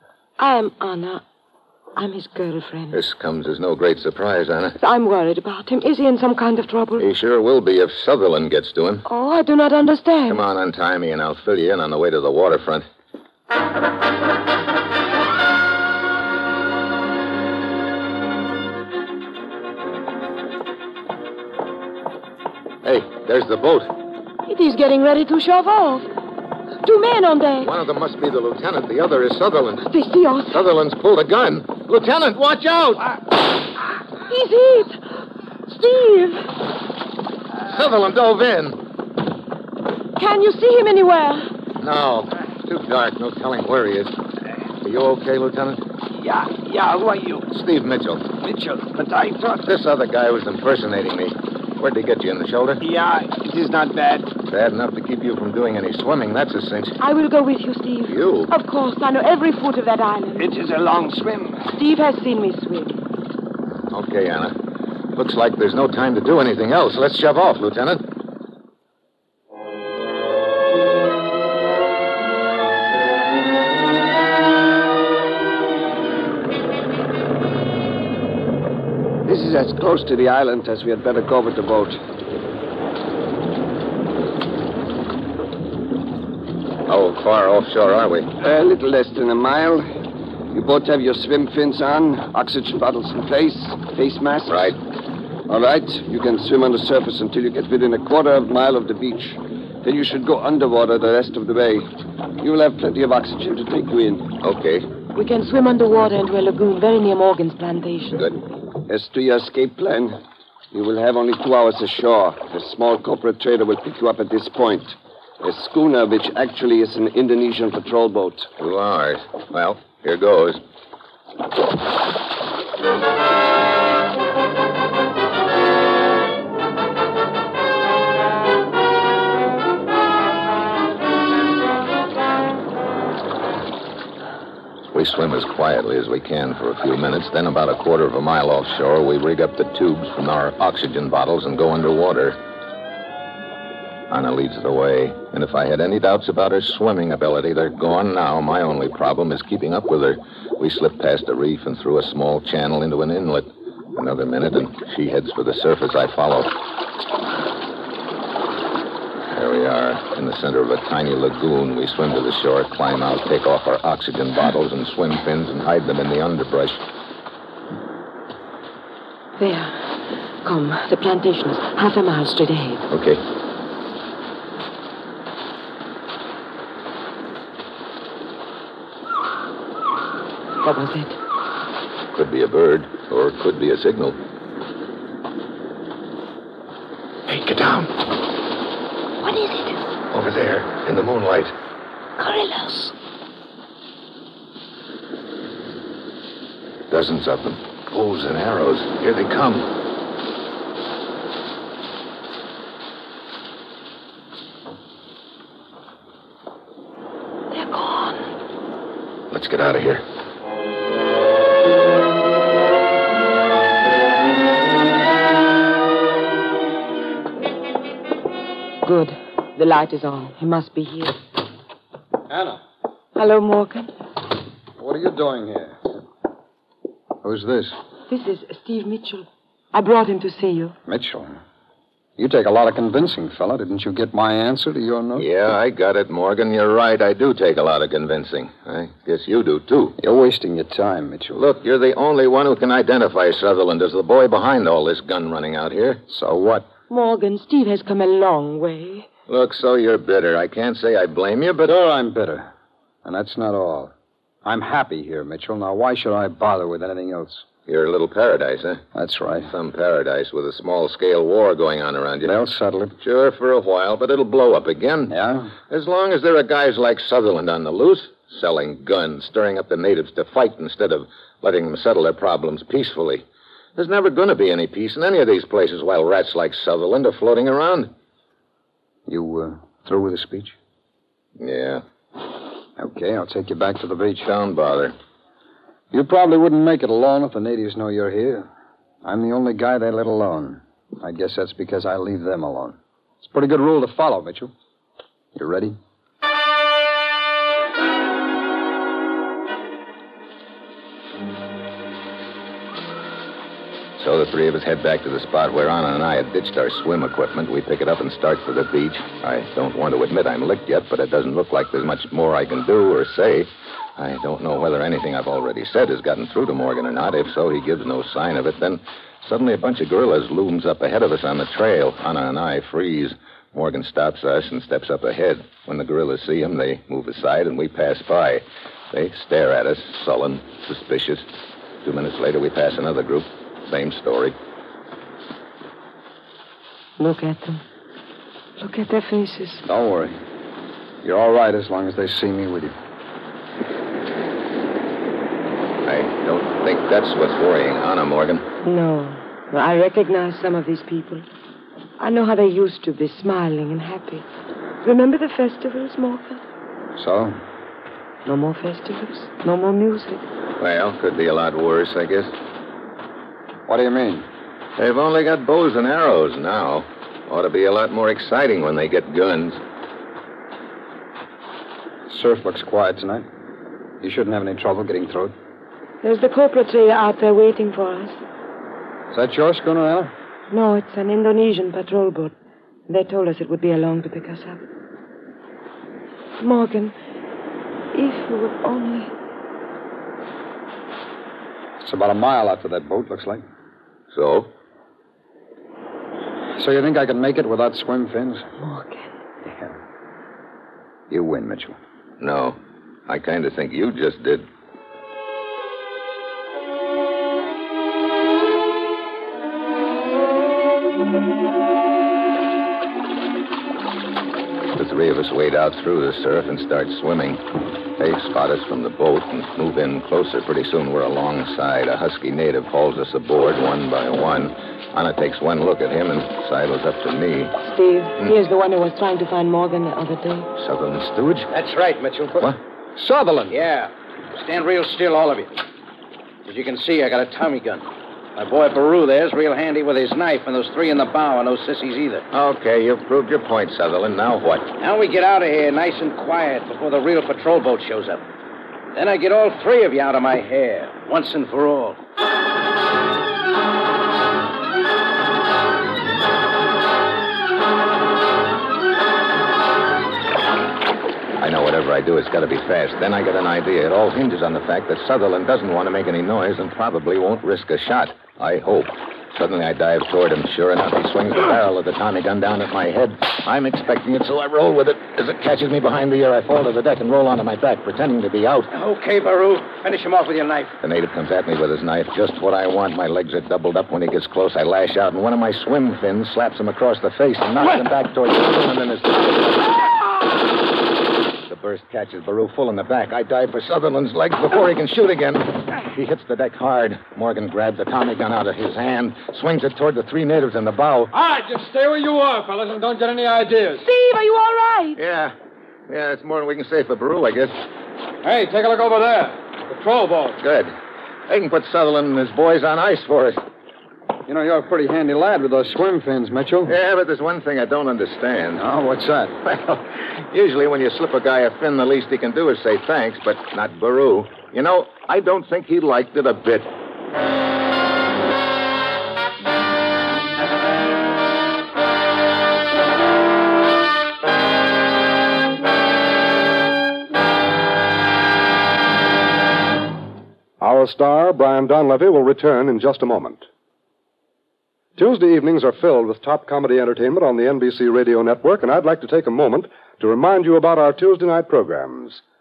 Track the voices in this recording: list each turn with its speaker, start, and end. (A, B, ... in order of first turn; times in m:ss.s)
0:00.4-0:01.2 A
0:02.0-0:03.0 A
0:02.9-0:04.8 B
0:04.8-0:07.1 A
0:07.0-0:09.0 B
0:09.0-0:10.4 A
0:10.3-0:12.9 B
0:22.8-0:23.9 B
0:24.5-0:26.1 A
0:26.8-0:27.7 A
0:27.6-0:29.9 B
0:29.9-0:30.6 A
0:30.5-0:33.2 B
0:34.3-0:35.0 A
0:35.7-0:36.5 A
0:37.6-0:38.8 B
0:40.2-0:41.5 A
0:41.8-0:44.1 B
0:44.8-0:45.8 B
0:46.2-0:47.5 C
0:47.5-0:48.3 B
0:48.4-0:49.7 C
0:49.7-0:52.8 B
0:52.8-0:54.3 C
0:54.5-0:57.0 B
0:57.0-1:00.5 A
0:58.1-0:58.5 B
1:00.4-1:01.8 C
1:01.7-1:03.0 A
1:03.9-1:04.6 B
1:05.1-1:08.0 B
1:19.2-1:22.0 C
1:26.9-1:28.3 B
1:28.4-1:29.9 C
1:30.5-1:34.8 C
1:34.5-1:34.8 B
1:35.5-1:44.3 C
1:44.4-1:44.9 B
1:45.1-1:48.2 A
1:48.9-1:50.2 C
1:50.7-1:58.5 C
1:58.6-2:00.6 B
2:14.9-2:22.4 B
2:24.1-2:36.5 B
2:39.3-2:46.8 B
2:49.4-2:49.9 A
2:50.4-2:52.8 A
2:52.9-2:53.2 B
3:00.6-3:01.2 A
3:02.1-3:04.2 B
3:07.3-3:08.1 B
3:09.2-3:09.8 A
3:10.1-3:11.5 B
3:12.2-3:12.9 A
3:16.9-3:19.7 B
3:27.5-3:28.2 A
3:29.3-3:30.0 B
3:38.8-3:41.2 A
3:42.3-3:42.6 D
3:43.2-3:43.9 A
3:44.8-3:45.8 D
3:47.2-3:47.8 D
3:48.1-3:50.8 A
3:50.9-3:51.4 D
3:52.2-3:55.3 D
3:55.2-4:00.0 B
4:00.0-4:01.4 D
4:01.4-4:06.0 B
4:06.1-4:06.7 D
4:06.9-4:09.1 A
4:09.3-4:11.7 B
4:11.6-4:12.5 D
4:13.0-4:13.9 D
4:14.4-4:17.4 D
4:17.7-4:18.8 B
4:18.9-4:19.5 D
4:19.5-4:22.4 B
4:22.2-4:22.9 D
4:23.0-4:33.2 B
4:25.1-4:25.5 D
4:33.8-4:37.9 B
4:39.1-4:40.6 D
4:41.4-4:41.8 B
4:42.8-4:44.3 D
4:44.2-4:45.0 B
4:45.9-4:48.5 D
4:49.0-4:54.5 D
4:55.4-4:55.8 D
5:04.0-5:31.3 B
5:31.8-5:34.4 B
5:37.0-5:37.6 A
5:38.6-5:39.7 A
5:39.7-5:40.2 D
5:41.0-5:42.8 D
5:45.9-5:48.5 B
5:48.6-5:51.3 A
5:52.0-5:54.3 A
5:54.8-5:56.4 A
5:57.0-5:57.4 D
5:58.3-6:00.3 A
6:00.6-6:02.3 B
6:03.7-6:04.3 D
6:04.8-6:09.6 B
6:12.1-6:13.3 D
6:14.0-6:15.4 D
6:16.0-6:18.2 A
6:19.1-6:20.1 D
6:20.5-6:22.3 A
6:22.9-6:24.6 A
6:26.4-6:26.9 A
6:27.9-6:29.1 A
6:31.8-6:33.4 D
6:34.1-6:34.5 B
6:36.6-6:38.5 D
6:38.6-6:39.1 A
6:39.5-6:39.8 D
6:41.1-6:41.8 D
6:42.2-6:44.5 B
6:54.7-6:57.4 B
6:58.0-7:07.5 B
7:07.6-7:10.5 A
7:10.6-7:11.5 B
7:11.5-7:12.5 E
7:13.0-7:13.6 D
7:13.5-7:15.6 E
7:16.4-7:22.2 E
7:22.3-7:24.7 B
7:24.8-7:28.2 E
7:28.9-7:32.0 E
7:41.4-7:58.7 B
7:58.7-8:00.7 E
8:00.8-8:09.8 B
8:11.5-8:21.1 B
8:21.1-8:23.8 F
8:23.7-8:25.0 A
8:25.0-8:25.3 B
8:25.9-8:27.6 B
8:28.2-8:30.4 F
8:30.4-8:30.8 B
8:31.3-8:33.4 B
8:34.3-8:36.8 D
8:36.7-8:38.6 B
8:38.6-8:39.4 D
8:39.4-8:46.7 B
9:00.6-9:03.4 G
9:05.0-9:12.2 G